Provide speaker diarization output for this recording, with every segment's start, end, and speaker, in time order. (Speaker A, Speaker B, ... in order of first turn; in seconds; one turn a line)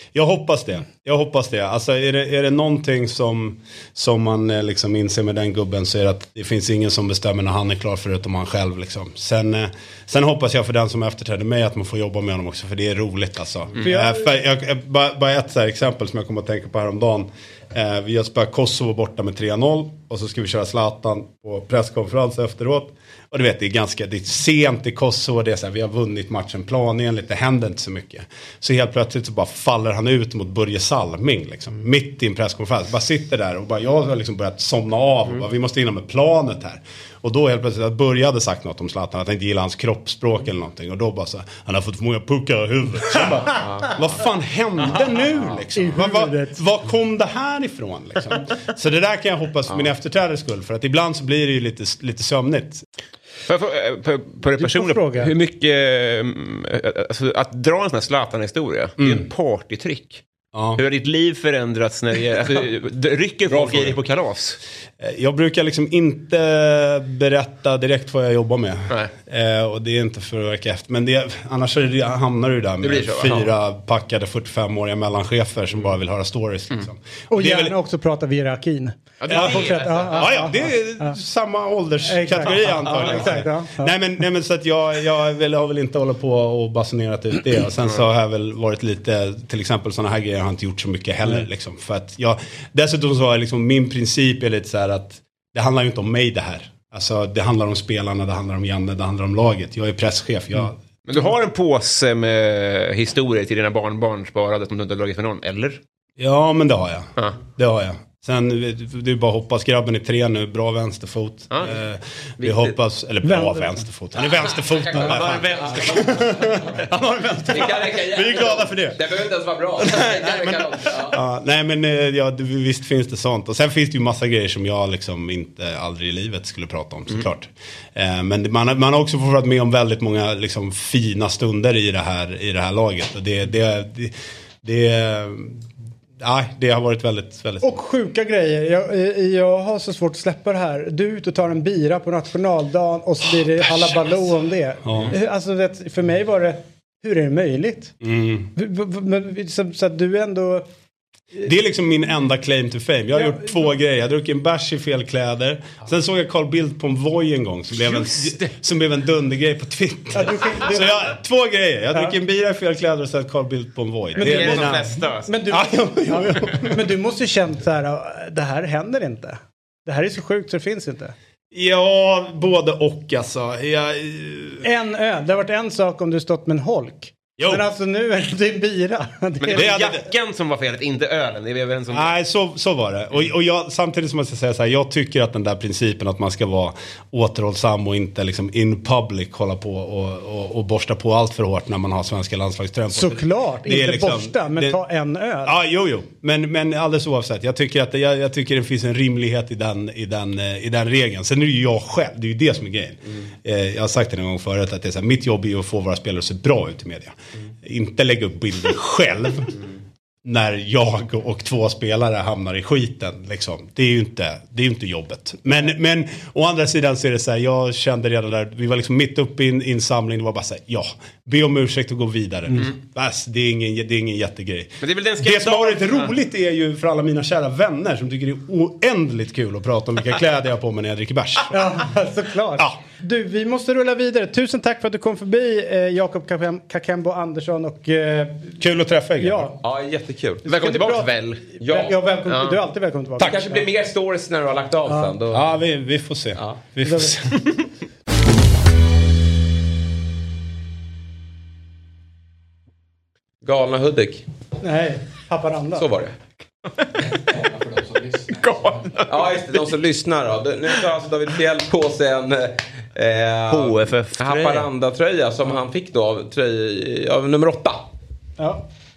Speaker A: 0.1-52.8
Speaker B: 13.8-14.3
Speaker B: 45.1-46.5
Speaker C: 53.5-60.2
Speaker B: 54.6-55.3
Speaker A: 59.0-59.3
Speaker A: 60.5-60.8
Speaker C: 60.8-64.6
Speaker A: 63.5-64.0
Speaker A: 65.0-77.7
Speaker C: 72.8-73.5
Speaker B: 77.3-81.2
Speaker C: 79.2-80.5
Speaker A: 79.3-100.8
Speaker B: 82.0-83.9
Speaker C: 101.0-105.8
Speaker A: 106.2-135.6
Speaker D: 112.4-112.8
Speaker B: 113.2-113.8
Speaker D: 114.4-116.2
Speaker C: 115.0-116.0
Speaker D: 117.5-121.2
Speaker A: 136.2-137.8
Speaker B: 137.6-147.9
Speaker A: 144.8-145.1
Speaker A: 148.0-148.5
Speaker B: 148.6-150.7
Speaker A: 151.4-166.9
Speaker B: 153.1-153.6
Speaker C: 157.8-158.5
Speaker B: 160.1-160.9
Speaker C: 164.2-165.3
Speaker B: 164.3-164.6
Speaker B: 165.3-171.1
Speaker A: 171.5-174.6
Speaker B: 174.6-179.9
Speaker A: 177.4-177.7
Speaker C: 179.4-182.1
Speaker A: 179.5-180.0
Speaker A: 181.9-194.8
Speaker B: 192.9-195.5
Speaker A: 195.4-209.6
Speaker A: 210.2-231.7
Speaker C: 224.8-226.1
Speaker B: 231.5-238.6
Speaker A: 238.6-239.6
Speaker B: 239.2-239.5
Speaker D: 239.6-240.4
Speaker B: 240.4-243.7
Speaker C: 240.5-241.4
Speaker D: 241.6-241.9
Speaker C: 242.2-242.6
Speaker D: 243.2-245.4
Speaker B: 244.9-245.2
Speaker A: 245.3-247.4
Speaker B: 246.8-247.2
Speaker D: 253.4-254.2
Speaker B: 254.6-255.8
Speaker D: 255.7-256.1
Speaker C: 258.2-259.6
Speaker D: 259.1-267.9
Speaker C: 263.5-264.7
Speaker B: 268.4-268.6